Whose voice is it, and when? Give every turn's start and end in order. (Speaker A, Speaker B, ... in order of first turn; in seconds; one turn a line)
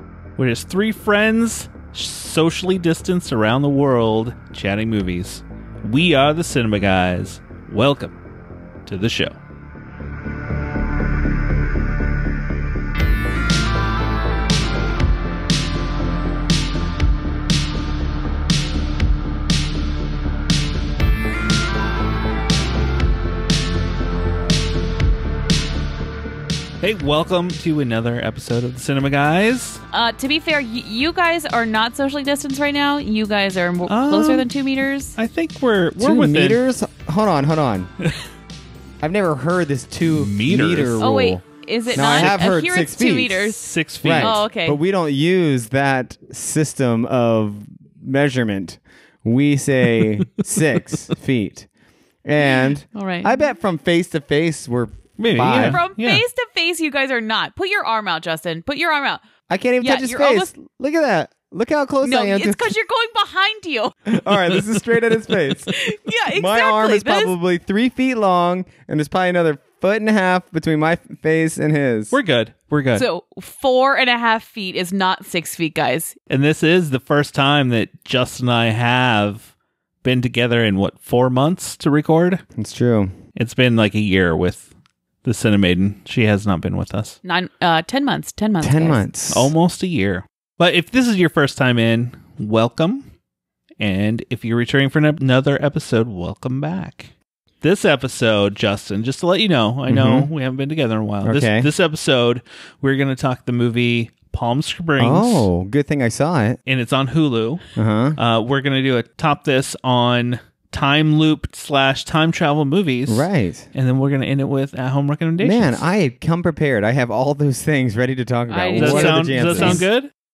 Speaker A: 0.4-8.2
Speaker A: 8.9-9.4
Speaker A: 26.8-29.8
Speaker B: 29.9-35.2
Speaker A: 33.9-34.5
Speaker A: 35.2-36.6
Speaker C: 36.0-37.9
Speaker C: 39.0-41.4
Speaker A: 40.1-41.1
Speaker B: 41.0-43.6
Speaker A: 41.9-42.4
Speaker C: 41.9-51.7
Speaker A: 43.6-44.5
Speaker B: 44.2-44.8
Speaker C: 52.2-55.8
Speaker B: 52.9-53.4
Speaker A: 55.2-56.2
Speaker B: 55.5-59.2
Speaker C: 59.5-62.7
Speaker B: 59.8-60.5
Speaker B: 62.0-64.0
Speaker C: 64.1-65.7
Speaker B: 65.7-67.3
Speaker C: 66.3-72.1
Speaker A: 72.1-73.1
Speaker B: 73.0-76.2
Speaker A: 76.3-79.5
Speaker A: 80.0-82.4
Speaker C: 82.6-83.1
Speaker A: 83.4-84.7
Speaker A: 85.2-87.2
Speaker B: 87.2-89.0
Speaker C: 88.6-89.5
Speaker A: 89.3-93.1
Speaker A: 93.8-97.1
Speaker A: 97.6-105.5
Speaker C: 99.9-100.3
Speaker C: 101.2-101.7
Speaker C: 105.0-106.6
Speaker A: 106.7-107.6
Speaker C: 107.8-108.2
Speaker A: 108.2-115.8
Speaker C: 113.1-113.7
Speaker C: 115.4-119.8
Speaker B: 118.5-119.8
Speaker A: 118.8-120.1